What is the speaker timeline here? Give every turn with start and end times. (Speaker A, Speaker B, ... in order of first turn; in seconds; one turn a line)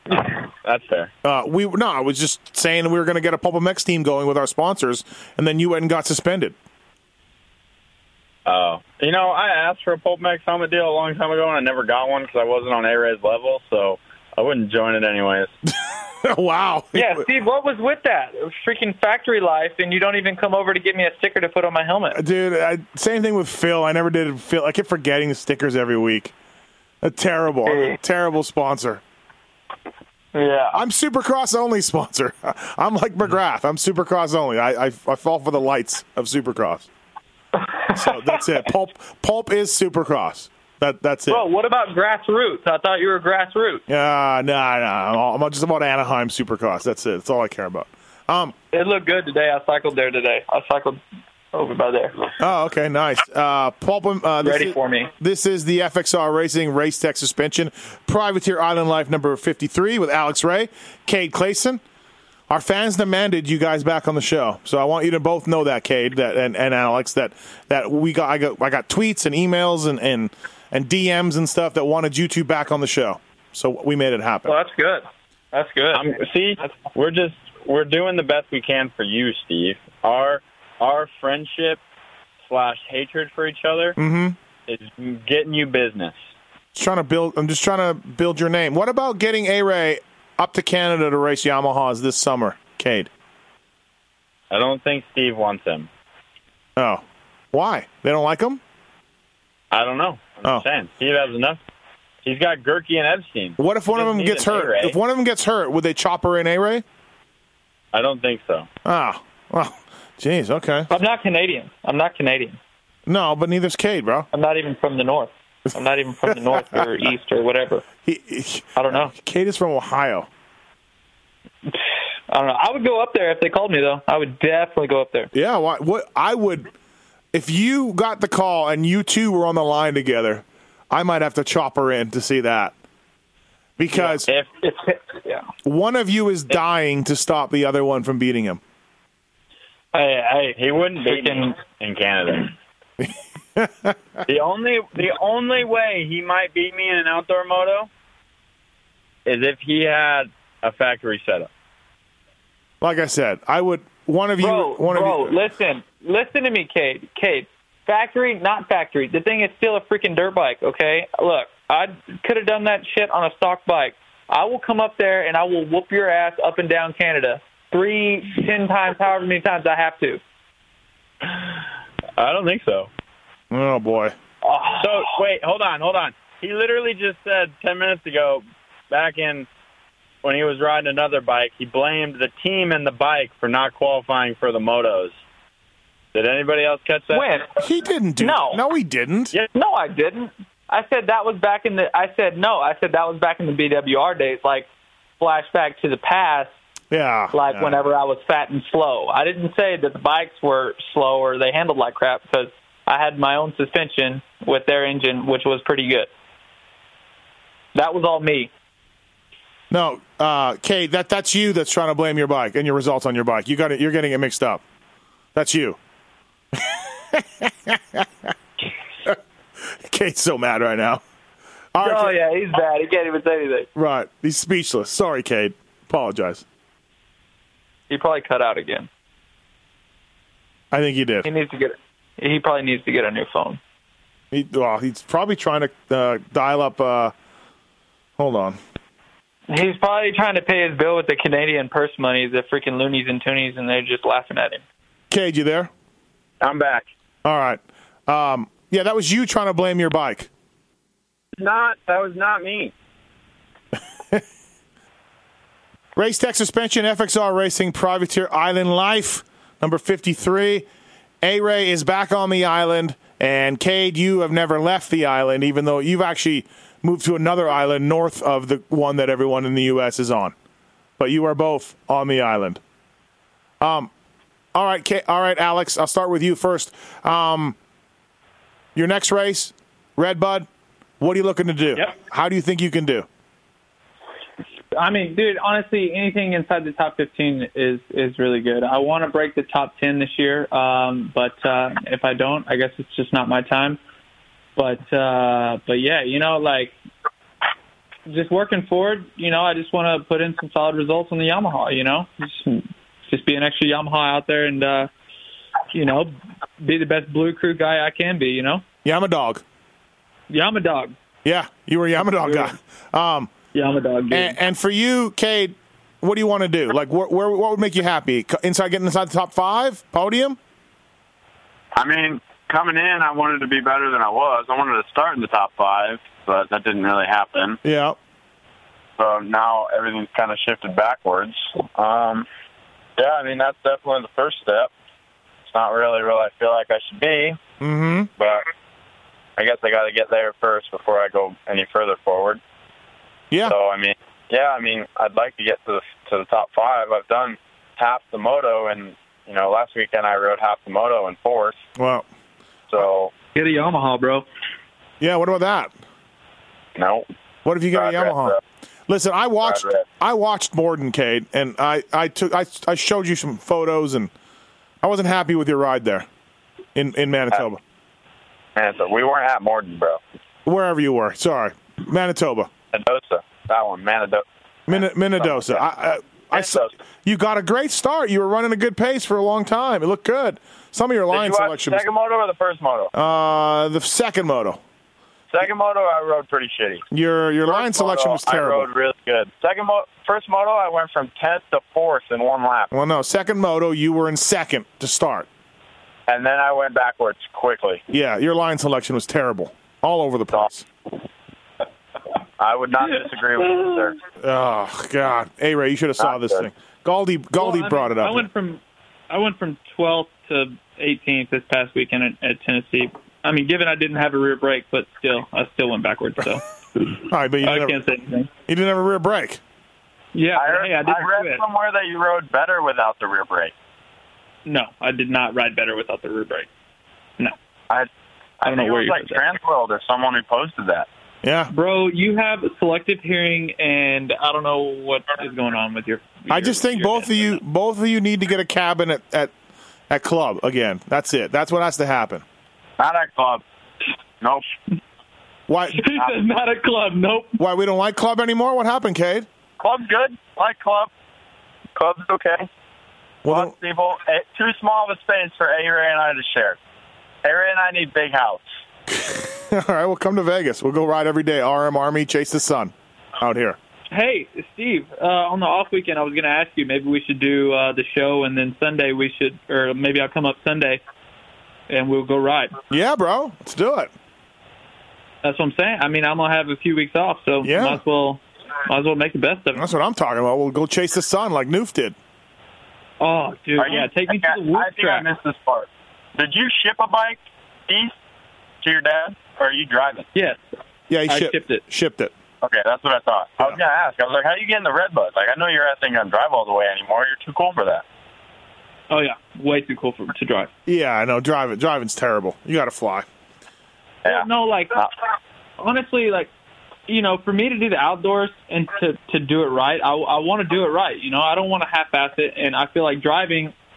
Speaker A: 0.6-1.1
Speaker B: 1.2-6.5
Speaker A: 8.4-15.5
Speaker B: 15.9-17.2
Speaker C: 16.9-22.2
Speaker B: 22.1-26.3
Speaker B: 27.0-29.0
Speaker C: 27.6-28.0
Speaker C: 30.3-30.8
Speaker B: 30.7-36.9
Speaker C: 37.6-38.4
Speaker B: 37.9-41.4
Speaker C: 41.3-43.8
Speaker B: 43.9-48.5
Speaker C: 48.7-51.0
Speaker C: 51.5-52.2
Speaker B: 52.4-61.8
Speaker C: 54.4-55.1
Speaker B: 62.5-74.5
Speaker C: 74.5-76.7
Speaker A: 75.9-81.8
Speaker A: 82.4-84.0
Speaker B: 84.0-84.4
Speaker A: 84.7-86.2
Speaker B: 86.7-93.1
Speaker A: 94.5-95.9
Speaker B: 96.8-98.6
Speaker A: 99.7-101.6
Speaker A: 102.2-105.0
Speaker B: 103.6-106.8
Speaker A: 107.9-108.7
Speaker B: 108.8-110.9
Speaker C: 110.9-112.6
Speaker B: 113.1-114.3
Speaker C: 114.3-117.8
Speaker B: 116.3-116.8
Speaker B: 118.0-120.3
Speaker C: 118.8-119.1
Speaker C: 122.3-125.3
Speaker B: 125.3-126.7
Speaker B: 127.3-132.7
Speaker B: 133.8-134.3
Speaker A: 133.9-134.5
Speaker C: 134.6-135.5
Speaker B: 135.6-138.6
Speaker C: 139.9-141.6
Speaker A: 140.6-142.5
Speaker B: 143.0-144.0
Speaker A: 144.2-147.9
Speaker A: 149.2-151.5
Speaker B: 152.8-155.3
Speaker C: 154.4-170.2
Speaker A: 172.2-172.9
Speaker B: 173.5-174.1
Speaker C: 174.4-175.1
Speaker A: 174.8-179.5
Speaker A: 180.2-185.1
Speaker A: 186.1-187.3
Speaker C: 187.1-187.6
Speaker B: 187.6-189.3
Speaker C: 188.2-188.6
Speaker C: 189.5-194.7
Speaker C: 195.2-196.5
Speaker B: 196.9-197.8
Speaker C: 197.3-206.1
Speaker C: 207.7-208.5
Speaker B: 209.7-214.6
Speaker B: 215.3-215.8
Speaker B: 216.5-218.3
Speaker B: 219.0-221.0
Speaker B: 221.7-222.2
Speaker C: 221.8-223.7
Speaker B: 223.7-226.4
Speaker C: 227.9-228.9
Speaker B: 230.7-231.3
Speaker C: 231.2-233.6
Speaker B: 234.3-237.1
Speaker B: 238.2-238.6
Speaker C: 239.5-244.6
Speaker B: 245.1-245.7
Speaker A: 246.4-246.9
Speaker B: 247.2-250.3
Speaker A: 251.4-252.7
Speaker B: 255.9-260.6
Speaker B: 261.2-270.3
Speaker B: 271.0-272.6
Speaker B: 273.6-273.9
Speaker B: 274.5-277.6
Speaker B: 278.7-280.5
Speaker B: 281.0-283.1
Speaker C: 284.7-293.8
Speaker C: 294.6-296.7
Speaker C: 298.1-304.9
Speaker C: 305.7-308.6
Speaker B: 308.8-309.4
Speaker C: 310.3-310.9
Speaker B: 311.2-313.3
Speaker C: 312.1-312.5
Speaker C: 313.5-314.4
Speaker B: 314.1-320.4
Speaker A: 321.8-327.6
Speaker B: 327.6-328.0
Speaker A: 329.0-332.2
Speaker A: 333.0-334.7
Speaker A: 335.5-337.4
Speaker B: 337.6-338.1
Speaker A: 338.2-338.5
Speaker A: 339.4-342.4
Speaker A: 343.4-351.6
Speaker B: 351.8-352.1
Speaker A: 352.7-353.1
Speaker C: 353.3-354.2
Speaker B: 355.0-355.7
Speaker A: 356.8-357.0
Speaker B: 357.4-358.4
Speaker A: 357.7-358.4
Speaker B: 358.9-364.1
Speaker A: 359.4-359.8
Speaker B: 364.8-366.1
Speaker B: 366.7-367.6
Speaker A: 368.6-370.0
Speaker B: 370.4-372.5
Speaker A: 372.7-375.6
Speaker B: 374.7-381.8
Speaker A: 376.3-376.7
Speaker A: 381.1-382.9
Speaker B: 382.9-384.6
Speaker A: 385.3-386.8
Speaker B: 386.9-388.7
Speaker A: 387.4-392.7
Speaker B: 392.7-395.3
Speaker A: 396.1-397.8
Speaker B: 397.9-400.6
Speaker A: 402.4-404.0
Speaker C: 403.4-403.9
Speaker B: 404.2-408.3
Speaker A: 406.0-406.5
Speaker C: 407.4-418.3
Speaker B: 417.0-417.8
Speaker B: 418.5-419.4
Speaker C: 420.1-421.4
Speaker A: 420.4-423.5
Speaker C: 424.4-426.5
Speaker A: 428.4-430.9
Speaker C: 428.4-429.2
Speaker B: 431.2-431.5
Speaker C: 431.5-437.4
Speaker B: 436.3-439.3
Speaker B: 439.9-442.2
Speaker A: 442.8-443.4
Speaker A: 444.2-444.5
Speaker B: 445.5-445.9
Speaker C: 445.7-447.4
Speaker B: 447.4-449.3
Speaker A: 449.6-450.9
Speaker A: 451.8-452.5
Speaker B: 453.2-453.5
Speaker A: 453.3-456.6
Speaker A: 457.2-458.4
Speaker B: 458.9-463.6
Speaker C: 463.9-470.8
Speaker C: 471.7-472.5
Speaker B: 472.7-473.9
Speaker C: 475.2-479.6
Speaker B: 477.4-477.8
Speaker B: 479.5-481.9
Speaker C: 483.0-485.0
Speaker A: 483.6-487.9
Speaker A: 488.6-490.1
Speaker B: 490.9-492.1
Speaker C: 491.1-491.6
Speaker A: 492.4-497.8
Speaker C: 498.9-500.5
Speaker B: 500.6-503.1
Speaker A: 504.0-504.9
Speaker C: 504.1-504.8
Speaker C: 505.6-506.3
Speaker C: 506.9-513.5